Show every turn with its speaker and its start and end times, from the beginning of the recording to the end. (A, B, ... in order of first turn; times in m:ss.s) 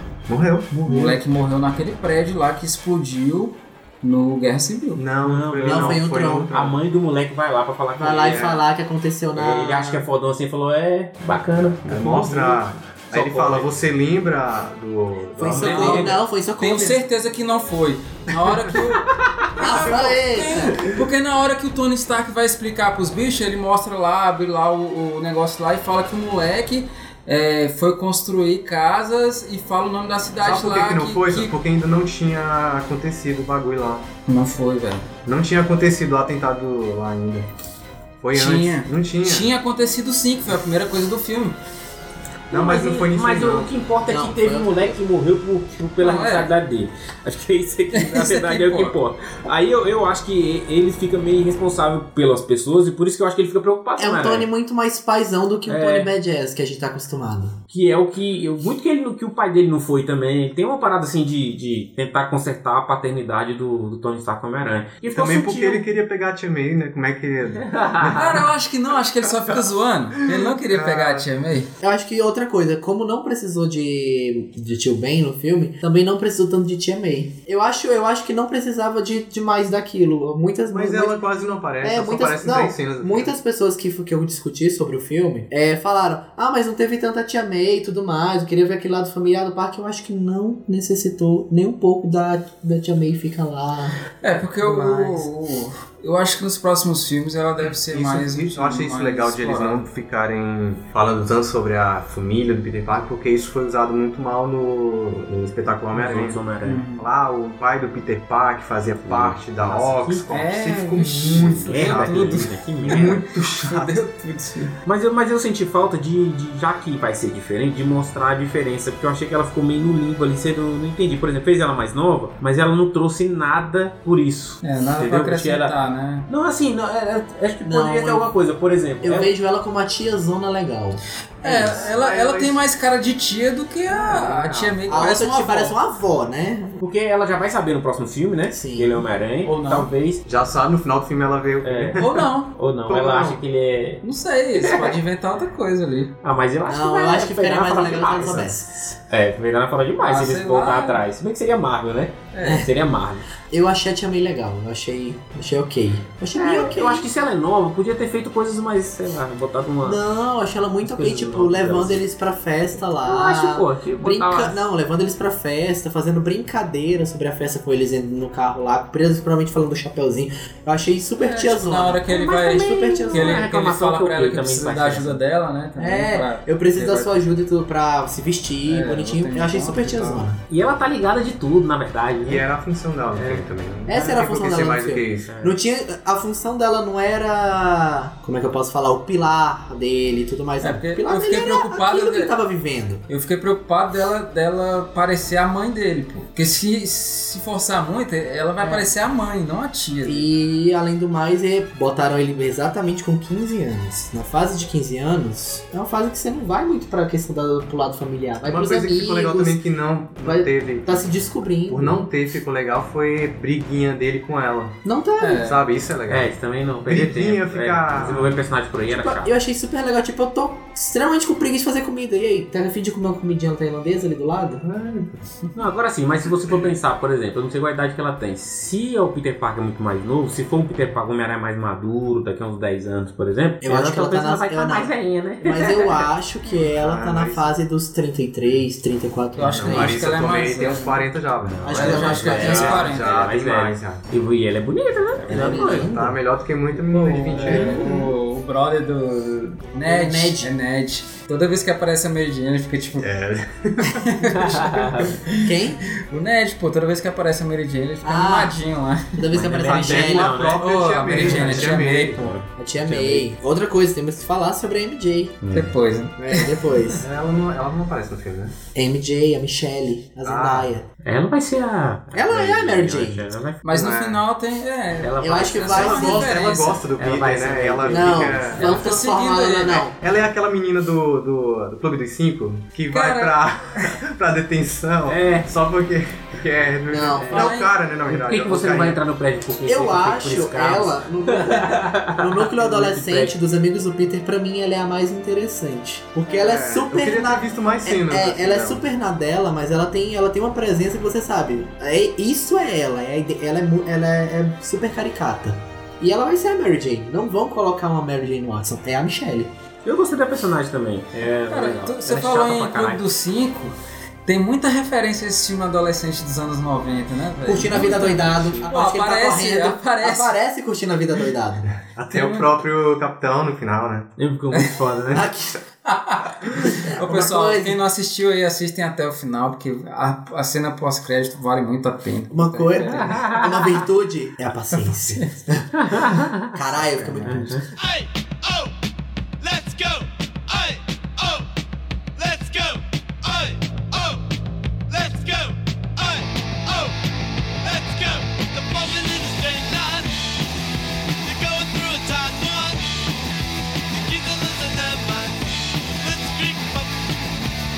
0:00.3-0:00.8 A
0:00.7-0:01.2 B
0:00.8-0:05.0 C
0:05.0-0:06.8 A
0:05.2-0:08.6 B
0:05.6-0:06.5 D
0:08.0-0:10.0 D
0:08.2-0:08.6 A
0:09.3-0:13.7 B
0:11.8-0:16.1 A
0:15.4-0:17.0 D
0:15.4-0:16.2 B
0:15.6-0:19.0 C
0:19.6-0:20.9 D
0:19.6-0:21.0 A
0:19.6-0:31.5 C
0:30.4-0:34.0 A
0:34.3-0:35.0 C
0:35.2-0:37.5 A
0:38.2-0:39.5 A
0:38.3-0:41.6 C
0:42.5-0:54.5 B
0:42.5-0:43.7 A
0:44.1-0:45.0 D
0:46.0-0:46.5 C
0:47.9-0:49.0 C
0:54.0-0:57.6 D
0:55.6-0:56.1 B
0:57.7-1:05.9 B
1:05.0-1:08.5 A
1:07.6-1:08.4 B
1:08.1-1:11.7 C
1:09.2-1:09.7 A
1:10.2-1:11.3 A
1:11.8-1:21.2 D
1:20.7-1:23.3 A
1:21.8-1:34.0 D
1:34.2-1:39.8 C
1:34.6-1:35.3 D
1:37.6-1:46.4 A
1:45.9-1:46.8 B
1:46.6-1:47.1 C
1:47.0-1:54.0 A
1:49.0-1:50.3 B
1:50.3-1:54.7 C
1:51.0-1:53.2 B
1:54.8-2:05.7 B
2:04.6-2:06.3 C
2:06.3-2:09.3 B
2:07.6-2:08.2 D
2:09.0-2:11.7 D
2:11.4-2:15.8 C
2:11.5-2:12.6 A
2:13.9-2:14.8 B
2:14.9-2:16.8 D
2:16.8-2:20.2 B
2:18.5-2:19.1 D
2:19.4-2:19.9 C
2:20.2-2:22.1 A
2:21.6-2:24.0 B
2:22.0-2:22.5 C
2:22.9-2:23.4 A
2:24.0-2:26.1 C
2:24.6-2:25.0 B
2:26.2-2:33.3 B
2:26.7-2:28.9 D
2:30.0-2:31.0 C
2:32.3-2:32.6 C
2:33.5-2:37.1 D
2:36.3-2:40.0 B
2:39.8-2:53.4 D
2:40.8-2:42.0 B
2:43.0-2:44.7 B
2:51.2-2:57.2 C
2:52.1-2:55.2 B
2:55.8-3:00.4 D
2:58.6-3:00.2 C
3:00.5-3:02.4 B
3:02.2-3:05.3 A
3:03.1-3:03.4 B
3:03.9-3:13.0 D
3:05.3-3:05.6 B
3:10.6-3:12.3 C
3:13.1-3:20.3 C
3:18.6-3:18.9 D
3:20.0-3:29.6 D
3:28.4-3:31.0 A
3:30.2-3:32.0 D
3:31.7-3:34.8 A
3:34.8-3:35.4 D
3:35.2-3:35.6 C
3:35.3-3:36.3 A
3:36.1-3:39.3 B
3:36.8-3:38.3 A
3:38.8-3:44.6 D
3:44.6-3:45.2 A
3:45.5-3:56.1 B
3:53.6-4:00.0 D
3:56.5-3:57.5 A
3:59.3-4:01.0 C
3:59.5-4:04.0 A
4:01.4-4:06.0 B
4:01.6-4:02.8 D
4:01.7-4:03.0 C
4:05.2-4:05.7 C
4:05.3-4:06.2 D
4:05.3-4:07.8 A
4:06.8-4:13.1 C
4:07.4-4:07.8 B
4:07.5-4:08.1 D
4:09.8-4:10.5 D
4:13.0-4:14.2 A
4:13.8-4:19.2 C
4:14.2-4:15.2 B
4:15.4-4:15.8 D
4:18.0-4:18.6 D
4:19.2-4:20.3 D
4:19.3-4:23.3 B
4:19.7-4:22.3 A
4:20.5-4:22.3 C
4:22.6-4:25.4 D
4:25.4-4:25.7 B
4:25.5-4:26.6 C
4:26.2-4:27.0 D
4:27.0-4:28.5 A
4:28.7-4:30.8 D
4:30.2-4:30.7 A
4:31.0-4:33.6 B
4:32.1-4:33.2 D
4:33.6-4:36.8 C
4:33.7-4:34.2 A
4:35.0-4:36.0 B
4:35.2-4:36.3 D
4:35.7-4:38.8 A
4:37.0-4:38.8 B
4:37.9-4:40.0 D
4:38.6-4:39.9 C
4:39.9-4:49.0 A
4:42.9-4:43.9 C
4:45.1-4:45.5 B
4:46.9-4:47.4 D
4:47.2-4:47.5 B
4:47.3-4:47.7 C
4:48.1-4:53.3 B
4:49.6-5:09.5 D
4:56.3-4:58.9 A
5:09.8-5:13.0 B
5:11.5-5:20.3 C
5:17.4-5:21.8 D
5:17.7-5:18.7 B
5:21.9-5:24.1 A
5:22.1-5:22.4 C
5:24.2-5:25.3 B
5:25.1-5:25.6 D
5:25.8-5:33.2 C
5:26.6-5:27.8 D
5:32.3-5:37.6 D
5:32.8-5:33.8 B
5:35.8-5:37.7 B
5:37.8-5:38.7 E
5:39.4-5:41.5 E
5:42.2-5:44.2 E
5:44.9-5:47.0 E
5:47.6-5:50.2 E
5:51.2-5:53.2 E
5:53.9-5:56.9 E